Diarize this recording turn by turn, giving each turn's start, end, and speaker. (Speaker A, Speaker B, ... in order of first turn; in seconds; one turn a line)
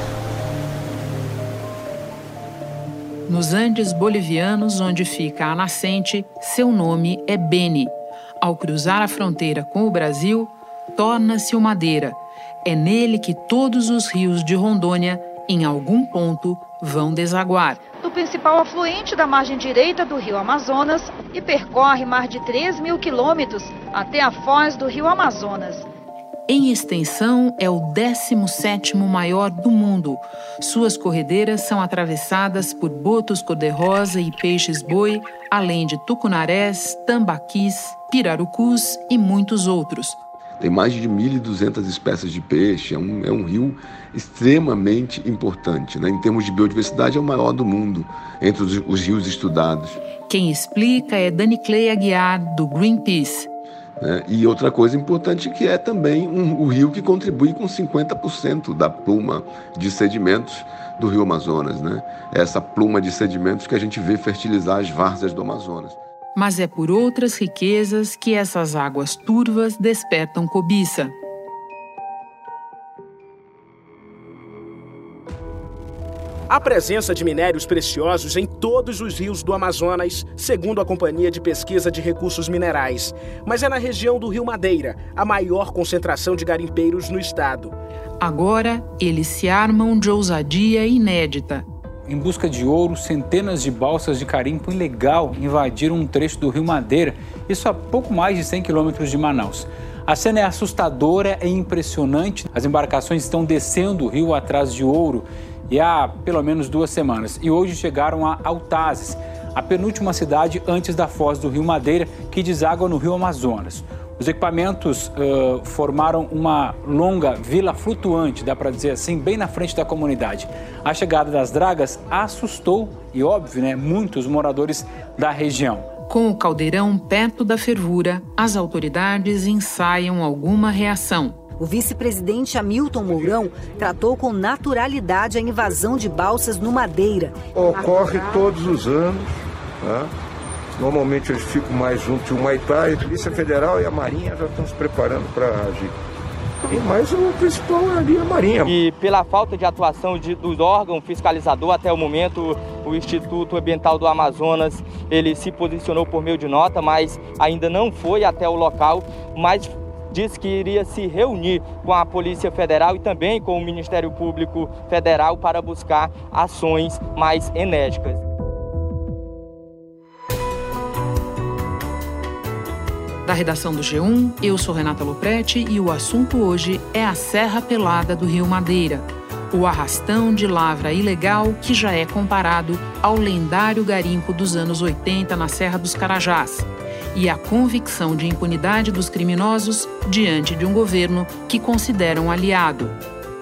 Speaker A: 3.3-17.9
Speaker B: 17.9-25.9
Speaker A: 26.5-40.2
Speaker C: 40.6-50.0
Speaker A: 50.3-53.5
Speaker C: 54.0-66.0
Speaker A: 66.4-71.2
Speaker D: 76.5-87.8
Speaker A: 88.2-91.7
Speaker E: 92.1-125.9
Speaker A: 126.1-131.4
Speaker F: 131.6-137.4
Speaker G: 137.6-139.3
Speaker G: 139.8-140.1
Speaker G: 140.8-146.0
Speaker G: 146.7-148.8
Speaker H: 148.7-168.2
Speaker A: 173.2-192.9